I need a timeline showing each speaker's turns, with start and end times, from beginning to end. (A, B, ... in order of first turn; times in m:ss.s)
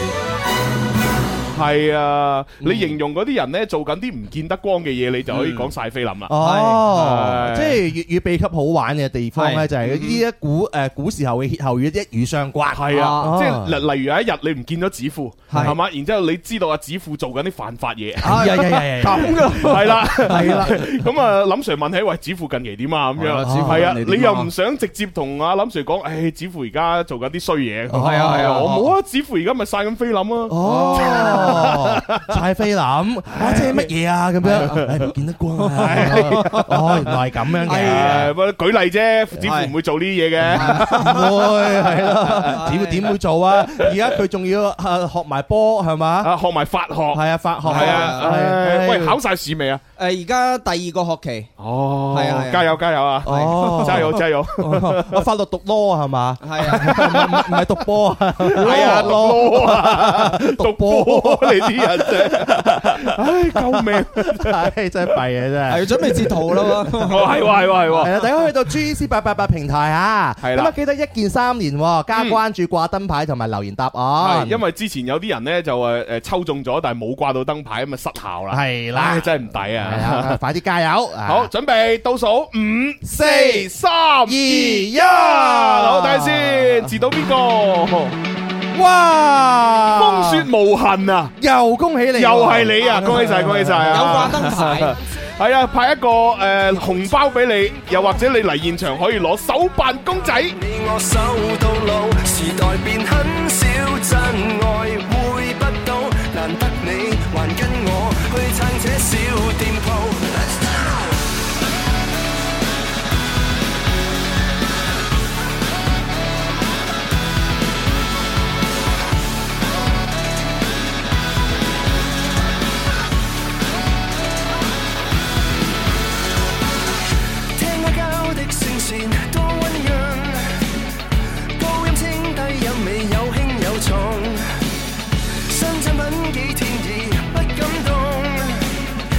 0:01.5-0:07.8 A
0:02.6-0:03.0 B
0:05.3-0:05.7 C
0:06.3-0:13.8 B
0:06.3-0:06.8 C
0:09.4-0:09.6 C
0:09.8-0:10.2 A
0:12.7-0:32.3 A
0:12.9-0:13.4 C
0:15.5-0:15.7 C
0:18.2-0:20.8 C
0:18.2-0:20.9 B
0:23.2-0:24.5 C
0:23.2-0:24.0 B
0:27.9-0:28.9 B
0:27.9-0:28.8 C
0:30.5-0:38.3 B
0:30.6-0:31.6 C
0:33.3-0:33.9 A
0:34.4-0:35.1 A
0:34.4-0:35.0 C
0:35.6-0:36.7 C
0:35.7-0:37.1 A
0:37.6-0:38.3 C
0:37.6-0:42.6 A
0:39.4-0:39.7 C
0:40.4-0:43.1 C
0:40.4-0:46.3 B
0:46.2-0:49.8 A
0:47.1-0:49.2 B
0:47.6-0:48.3 C
0:50.0-0:51.5 C
0:51.6-0:55.2 A
0:52.1-0:52.7 C
0:53.2-1:06.3 B
0:53.3-0:54.0 C
0:56.4-0:57.0 C
0:56.6-0:57.7 A
0:58.4-1:04.7 A
1:05.7-1:07.4 C
1:07.0-1:08.2 A
1:07.1-1:14.6 B
1:10.4-1:10.7 A
1:12.1-1:12.4 A
1:14.2-1:20.4 A
1:18.5-1:21.5 B
1:21.2-1:28.2 A
1:23.0-1:23.7 B
1:24.2-1:26.9 B
1:28.7-1:30.5 B
1:29.9-1:31.3 A
1:31.4-1:34.4 B
1:32.1-1:40.6 A
1:33.9-1:35.0 C
1:40.4-1:51.0 D
2:07.5-2:10.7 D
2:11.5-2:14.5 D
2:15.5-2:18.8 D